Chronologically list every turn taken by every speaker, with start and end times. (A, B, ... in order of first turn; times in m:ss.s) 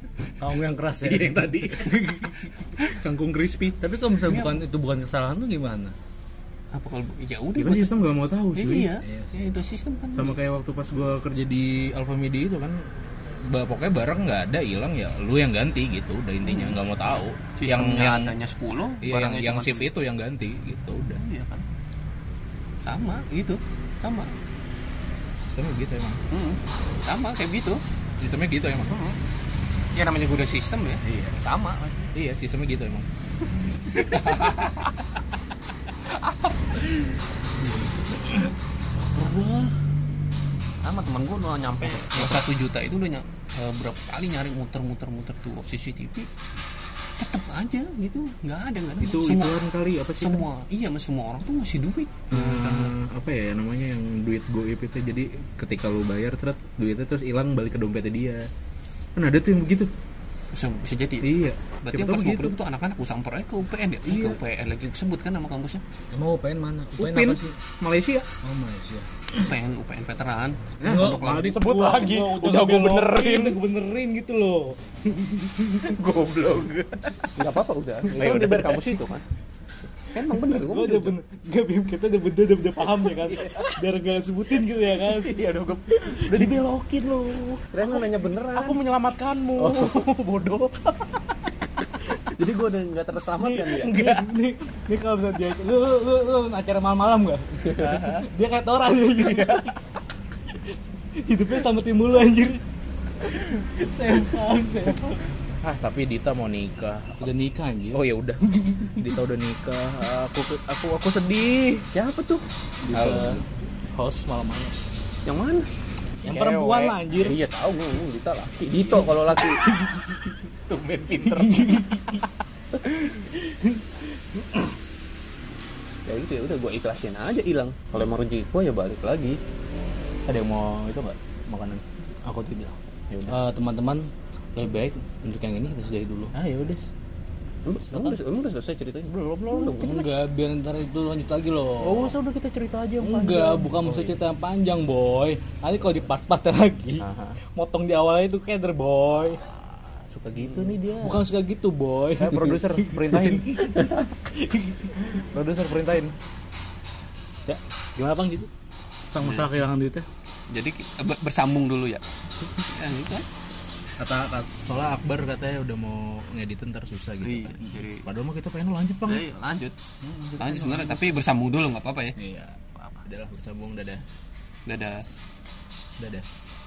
0:00.4-0:02.5 A
0:01.0-0:03.9 B
0:03.8-0:06.0 A
0:04.3-0:04.6 C
0:06.7-0:07.9 C
0:07.6-0:09.0 B
0:08.5-0:10.4 C
0:09.0-0:09.4 A
0:10.2-0:18.4 B
0:16.4-0:16.8 C
0:17.6-0:19.9 C
0:19.0-0:21.2 B
0:21.2-0:21.7 C
0:22.8-0:24.3 C
0:25.5-0:26.2 B
0:26.3-0:27.8 C
0:28.2-0:29.0 B
0:28.9-0:29.2 C
0:30.0-0:32.1 C
0:31.0-0:31.4 B
0:32.1-0:35.1 B
0:34.2-0:34.5 C
0:36.0-0:38.5 B
0:39.2-0:39.8 B
0:40.8-0:46.3 C
0:41.8-0:42.4 B
0:47.2-0:49.6 C
0:49.0-0:50.5 B
0:50.2-0:53.0 C
0:52.3-0:58.5 B
0:59.2-0:59.9 B
1:00.5-1:05.8 C
1:01.2-1:02.6 B
1:04.1-1:04.4 B
1:06.1-1:07.6 A
1:07.0-1:08.3 B
1:08.4-1:09.5 A
1:09.4-1:11.6 C
1:10.8-1:15.9 A
1:10.8-1:13.6 B
1:15.8-1:17.5 B
1:17.4-1:19.2 C
1:18.1-1:19.0 B
1:20.1-1:21.2 C
1:20.5-1:25.4 A
1:23.1-1:23.6 C
1:23.4-1:23.8 B
1:25.0-1:28.0 B
1:26.0-1:26.6 A
1:27.7-1:28.8 C
1:28.5-1:31.5 B
1:32.2-1:34.1 C
1:33.4-1:39.8 A
1:33.9-1:34.3 B
1:37.7-1:38.1 C
1:40.5-1:42.6 A
1:43.2-1:45.3 A
1:45.6-1:47.3 B
1:47.2-1:48.0 A
1:47.9-1:51.9 B
1:51.9-1:52.4 C
1:52.8-1:54.7 A
1:52.9-1:53.4 B
1:55.3-1:55.7 C
1:56.2-1:57.4 A
1:56.3-1:57.0 B
1:57.2-1:59.7 C
1:58.7-2:02.2 B
1:59.7-2:00.0 A
2:01.2-2:02.2 A
2:02.8-2:03.4 B
2:03.4-2:04.6 A
2:06.1-2:09.4 C
2:10.3-2:11.8 B
2:12.2-2:12.8 A
2:13.1-2:13.4 B
2:13.3-2:16.4 A
2:16.3-2:16.8 B
2:17.7-2:20.0 C
2:17.9-2:18.2 A
2:19.1-2:20.1 B
2:19.5-2:22.1 A
2:21.8-2:24.2 B
2:23.0-2:29.4 A
2:27.0-2:27.4 B
2:30.0-2:31.2 B
2:30.9-2:35.2 A
2:32.2-2:34.0 B
2:35.1-2:36.2 B
2:37.5-2:38.5 A
2:39.1-2:40.1 A
2:39.2-2:39.5 C
2:40.5-2:43.3 C
2:44.0-2:49.3 B
2:47.2-2:48.1 C
2:49.0-2:49.8 C
2:50.0-2:51.0 B
2:50.4-2:52.2 C
2:52.2-2:54.0 B
2:54.7-2:55.0 C
2:56.0-2:56.3 B